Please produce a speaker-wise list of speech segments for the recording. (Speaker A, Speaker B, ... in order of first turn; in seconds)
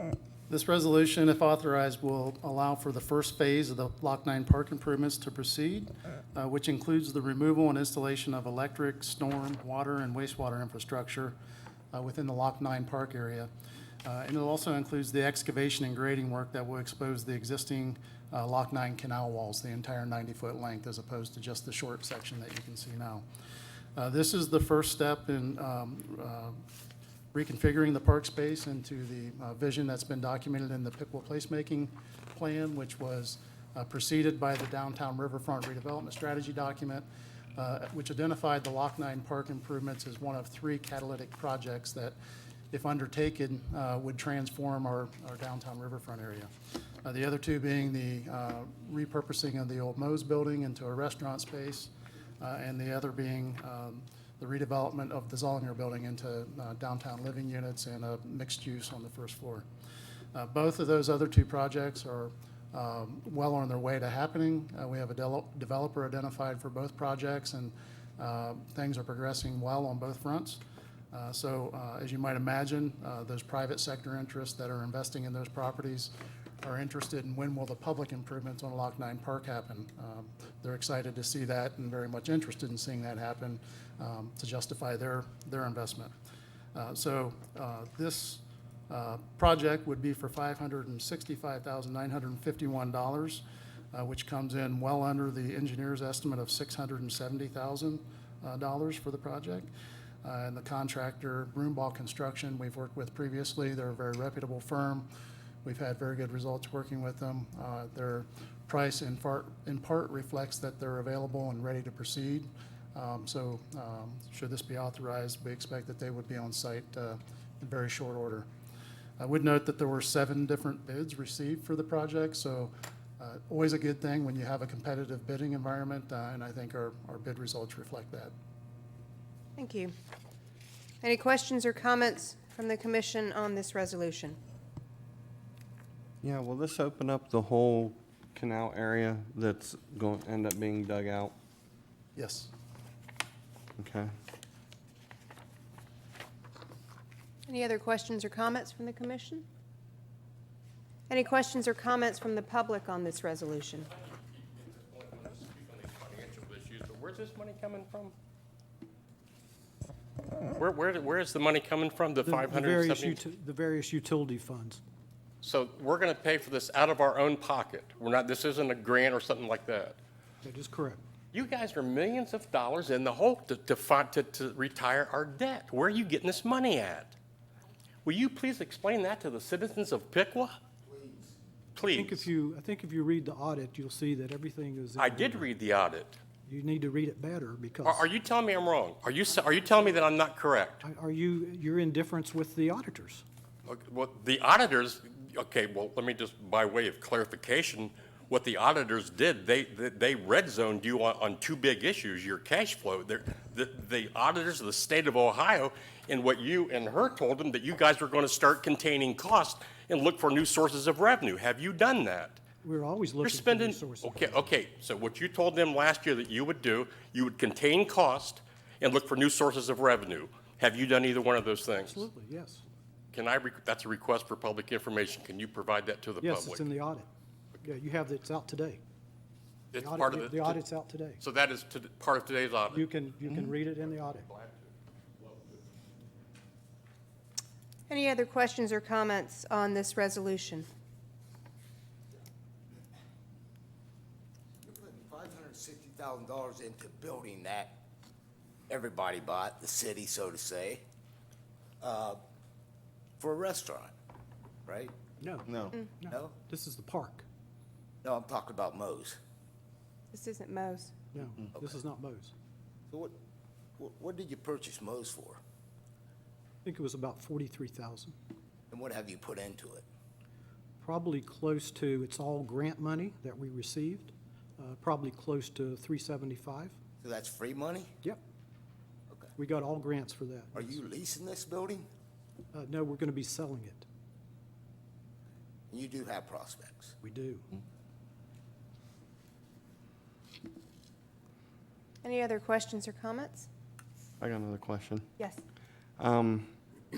Speaker A: 0.5-11.4, 11.9-13.5, 14.0-23.2, 23.9-26.6, 27.3-37.0, 37.6-42.1, 42.7-46.5, 47.0-59.6, 60.3-86.1, 86.7-99.7, 100.2-105.1, 105.6-118.5, 119.2-128.3, 142.2-142.5
Speaker B: 129.6-129.9, 131.0-134.4, 147.5-149.4, 151.1-153.9, 237.9-240.7, 260.1-261.0, 292.0-293.5
Speaker C: 136.2-141.3, 143.8-144.1, 294.2-295.0, 296.0-296.5
Speaker D: 154.0-158.1, 160.5-163.2, 165.4-170.0, 171.3-177.2, 178.0-180.6, 181.7-182.2, 185.0-186.2, 187.8-190.8, 193.7-212.4, 213.2-222.0, 223.1-226.7, 229.7-230.6, 231.2-232.9, 234.3-234.6
Speaker E: 162.2-164.8, 170.4-171.0, 181.8-185.5, 186.4-188.1, 190.8-193.2, 212.6-214.4, 221.7-222.6, 226.2-227.1, 227.6-228.8, 229.8-231.2, 232.7-234.3, 255.2-257.2, 261.1-262.3, 266.6-268.1, 270.8-276.8, 279.4-280.8, 282.5-283.8, 287.0-287.5
Speaker F: 180.8-181.4, 244.6-247.8, 248.7-250.8, 251.8-252.2, 253.2-253.9, 254.7-254.9, 256.1-256.3, 258.0-259.2, 261.5-261.8, 262.9-263.1, 263.8-265.4, 268.7-269.9, 277.0-277.9, 280.5-281.9, 285.7-286.9